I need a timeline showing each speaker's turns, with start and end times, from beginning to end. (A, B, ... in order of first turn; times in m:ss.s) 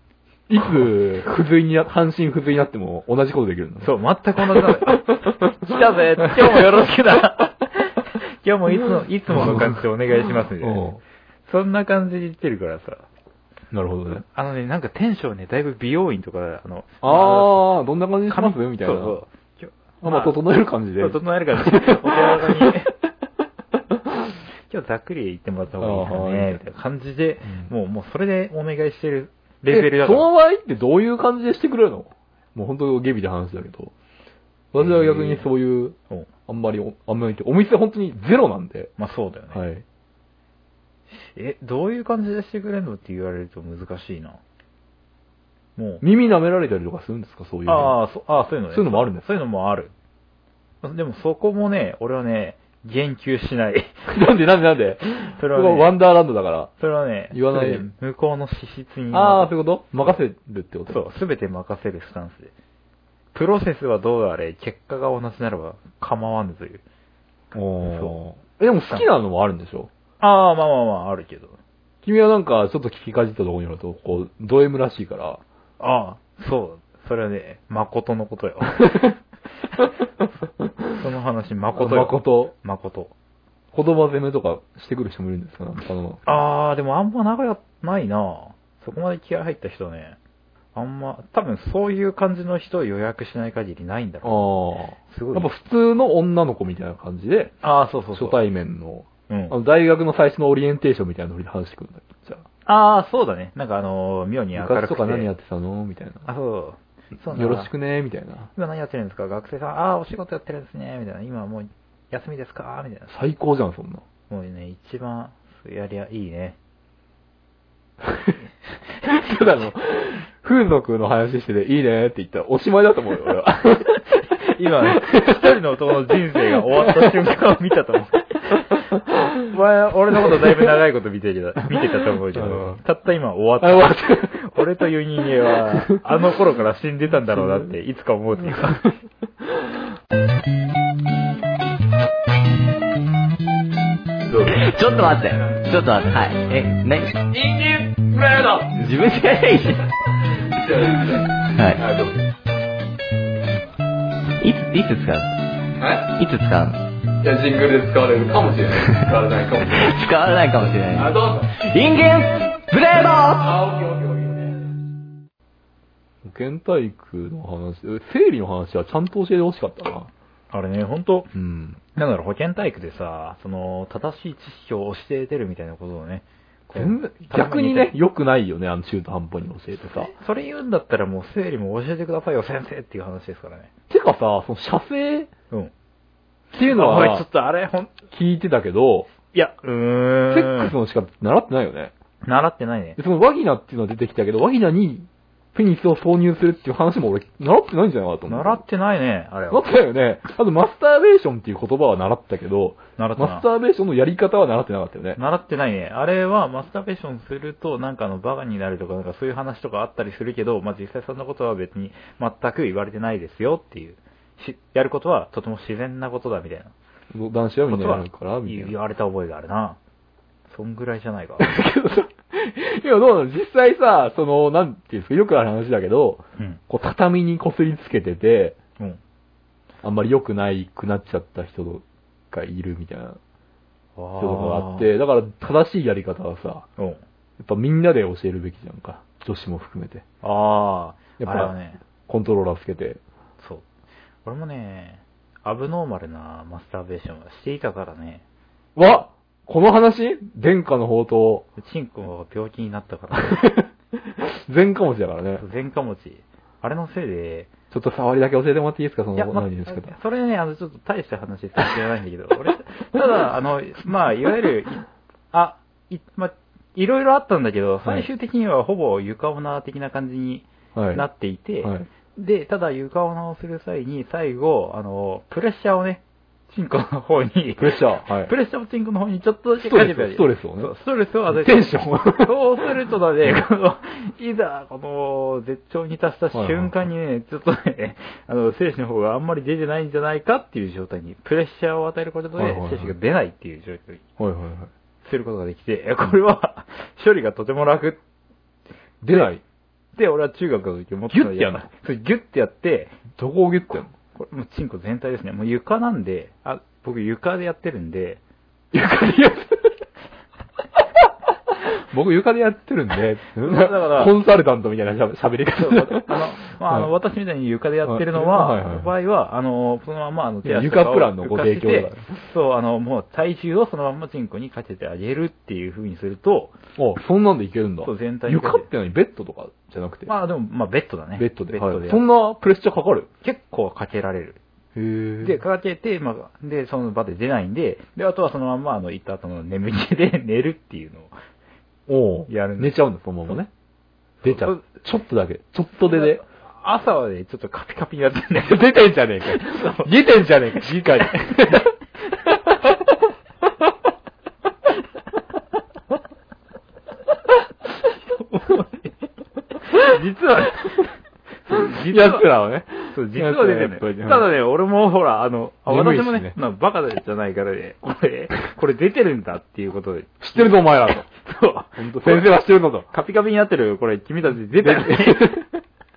0:00.5-0:03.9 A
0:03.8-0:10.9 B
0:04.5-0:05.7 A
0:06.2-0:06.6 A
0:09.3-0:09.8 A
0:10.6-0:11.0 A
0:11.4-0:13.0 B
0:13.7-0:14.2 A
0:14.1-0:17.6 B
0:17.0-0:19.2 A
0:18.3-0:20.4 B
0:20.0-0:22.7 A
0:21.0-0:22.9 B
0:24.7-0:30.3 B
0:25.8-0:26.6 A
0:29.7-0:33.9 A
0:34.7-0:38.9 A
0:34.8-0:35.5 B
0:39.0-0:39.6 B
0:39.5-0:39.8 A
0:41.1-0:44.4 B
0:45.8-0:46.0 B
0:46.0-0:48.0 A
0:47.6-0:49.9 B
0:48.7-0:49.2 A
0:50.8-0:53.9 B
0:54.1-0:56.7 A
0:55.4-0:55.9 B
0:56.8-0:59.5 B
0:57.3-0:57.9 A
0:59.1-1:01.0 A
1:00.9-1:02.5 B
1:03.3-1:06.8 B
1:07.5-1:09.9 A
1:07.8-1:08.2 B
1:10.2-1:11.6 B
1:12.0-1:15.4 A
1:15.8-1:19.1 B
1:20.9-1:23.1 B
1:21.8-1:22.5 A
1:23.7-1:26.2 A
1:26.2-1:30.2 B
1:30.7-1:34.5 B
1:34.2-1:37.6 A
1:35.0-1:35.5 B
1:37.6-1:38.4 B
1:38.1-1:42.4 A
1:39.3-1:39.6 B
1:42.6-1:45.3 B
1:44.5-1:46.2 A
1:46.2-1:47.7 B
1:47.3-1:48.5 A
1:48.5-1:53.1 B
1:53.1-1:54.0 A
1:54.3-1:56.6 B
1:59.0-2:04.0 A
1:59.1-1:59.4 B
2:04.4-2:08.6 B
2:05.0-2:05.4 A
2:06.9-2:07.1 A
2:09.5-2:18.9 B
2:10.3-2:10.8 A
2:12.3-2:12.8 A
2:13.6-2:14.4 A
2:24.4-2:27.3 C
2:27.4-2:28.8 A
2:28.7-2:29.9 C
2:30.6-2:32.3 A
2:30.9-2:31.8 C
2:34.4-2:35.3 C
2:35.8-2:36.1 A
2:36.1-2:36.8 C
2:37.2-2:40.0 A
2:38.8-2:39.1 C
2:39.7-2:43.6 C
2:40.9-2:41.5 A
2:43.5-2:44.4 A
2:46.2-2:50.1 A
2:50.5-2:51.3 B
2:51.3-2:51.8 A
2:51.9-2:57.9 B
2:56.7-3:00.1 A
2:59.9-3:03.7 B
3:03.9-3:05.3 A
3:06.5-3:07.2 A
3:06.6-3:07.9 B
3:08.1-3:09.1 A
3:09.3-3:10.7 B
3:10.3-3:11.9 A
3:12.2-3:13.0 B
3:13.0-3:18.6 A
3:18.3-3:19.7 B
3:19.5-3:25.2 A
3:23.0-3:23.4 B
3:25.2-3:36.7 B
3:37.1-3:38.7 A
3:37.7-3:39.8 B
3:40.5-3:41.5 B
3:41.4-3:48.6 A
3:49.8-3:53.2 A
3:54.0-3:54.9 B
3:54.2-3:56.6 A
3:57.4-4:00.0 A
4:00.2-4:01.8 B
4:01.2-4:01.5 A
4:02.0-4:03.0 A
4:03.4-4:03.6 B
4:04.2-4:08.2 B
4:08.8-4:11.4 A
4:11.6-4:13.6 B
4:13.2-4:15.4 A
4:15.4-4:17.5 B
4:17.7-4:19.9 A
4:19.2-4:54.0 B
4:30.7-4:31.0 A
4:31.6-4:31.9 A
4:37.6-4:38.3 A
4:39.6-4:40.7 A
4:41.3-4:42.3 A
4:46.3-4:46.7 A
4:52.4-4:52.9 A
4:54.2-4:54.7 A
4:55.0-4:58.0 B
4:59.0-4:59.4 A
5:00.0-5:03.0 B
5:01.1-5:01.7 A
5:03.1-5:03.9 A
5:04.1-5:08.2 B
5:08.7-5:09.8 A
5:11.7-5:16.9 A
5:13.4-5:14.1 B
5:15.5-5:26.5 B
5:17.8-5:18.9 A
5:20.4-5:22.2 A
5:26.8-5:30.1 A
5:27.8-5:28.7 B
5:30.1-5:32.0 B
5:31.2-5:33.1 A
5:33.2-5:34.4 B
5:34.7-5:35.4 A
5:35.2-5:41.1 B
5:41.9-5:43.5 A
5:42.3-5:42.8 B
5:44.2-5:46.2 A
5:44.2-5:44.6 B
5:45.9-5:48.7 B
5:48.4-5:51.7 A
5:49.4-5:49.9 B
5:50.6-5:51.6 B
5:52.3-5:52.9 A
5:58.2-5:58.9 B
5:59.7-6:00.9 B
6:01.4-6:02.3 B
6:01.7-6:04.3 A
6:02.9-6:12.3 B
6:05.7-6:06.4 A
6:10.2-6:11.1 A
6:11.8-6:12.9 A
6:12.9-6:15.4 B
6:14.6-6:15.5 A